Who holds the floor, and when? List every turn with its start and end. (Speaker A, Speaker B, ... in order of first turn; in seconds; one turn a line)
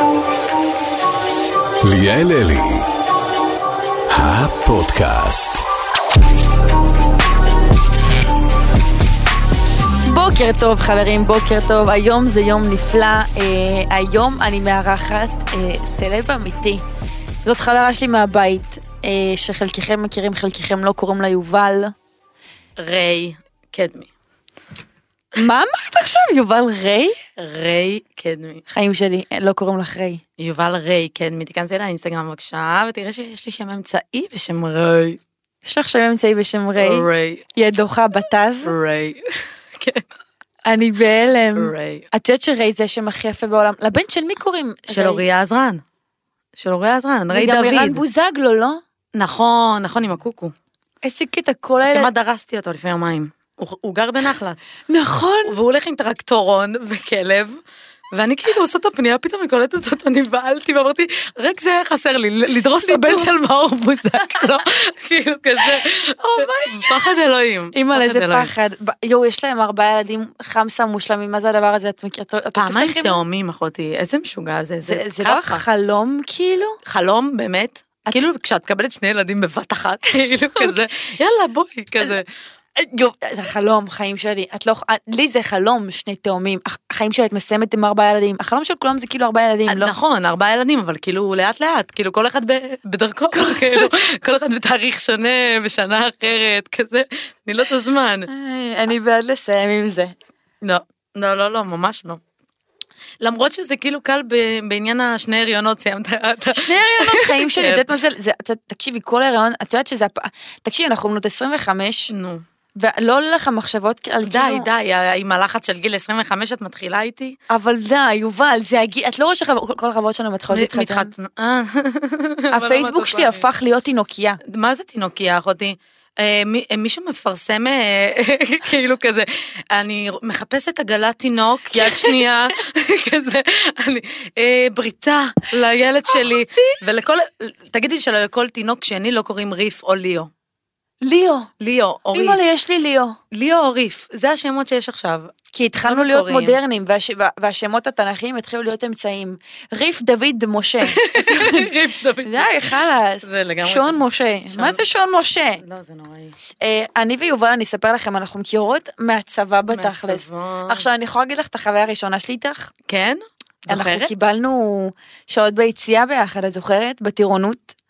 Speaker A: 1.8-2.9
Speaker A: 4.1-5.6
Speaker B: 10.0-16.8
Speaker B: 17.4-21.9
Speaker C: 22.8-24.1
Speaker B: 25.4-27.2
Speaker C: 27.4-28.6
Speaker B: 28.7-30.2
Speaker C: 30.4-35.2
Speaker B: 35.6-38.8
Speaker C: 36.8-37.5
Speaker C: 38.6-40.0
Speaker B: 40.7-45.2
Speaker C: 41.6-42.1
Speaker C: 44.9-45.8
Speaker C: 46.6-48.0
Speaker B: 47.3-48.8
Speaker C: 49.1-50.5
Speaker B: 51.0-52.1
Speaker C: 51.9-54.6
Speaker B: 54.9-55.6
Speaker C: 55.5-57.6
Speaker C: 58.1-68.5
Speaker B: 62.8-63.3
Speaker B: 64.2-64.7
Speaker B: 66.3-67.1
Speaker B: 67.7-73.2
Speaker C: 72.6-75.6
Speaker B: 74.8-76.8
Speaker C: 76.8-82.3
Speaker B: 82.8-89.9
Speaker C: 89.7-98.3
Speaker B: 93.3-93.9
Speaker B: 98.3-100.2
Speaker C: 100.6-102.2
Speaker C: 103.2-107.9
Speaker B: 106.5-112.1
Speaker C: 112.1-112.4
Speaker B: 112.8-114.7
Speaker C: 114.2-117.4
Speaker B: 117.5-121.1
Speaker C: 120.5-123.5
Speaker B: 122.5-124.4
Speaker C: 124.5-140.3
Speaker B: 131.7-132.3
Speaker B: 136.2-136.8
Speaker B: 141.0-141.5
Speaker C: 141.6-142.4
Speaker B: 142.1-143.2
Speaker C: 143.3-145.3
Speaker B: 145.5-151.7
Speaker C: 145.8-146.6
Speaker C: 150.9-152.7
Speaker B: 152.2-155.6
Speaker C: 153.2-154.0
Speaker C: 154.5-154.8
Speaker C: 155.6-156.4
Speaker B: 156.6-162.7
Speaker C: 159.7-160.9
Speaker C: 162.9-164.1
Speaker B: 163.7-167.7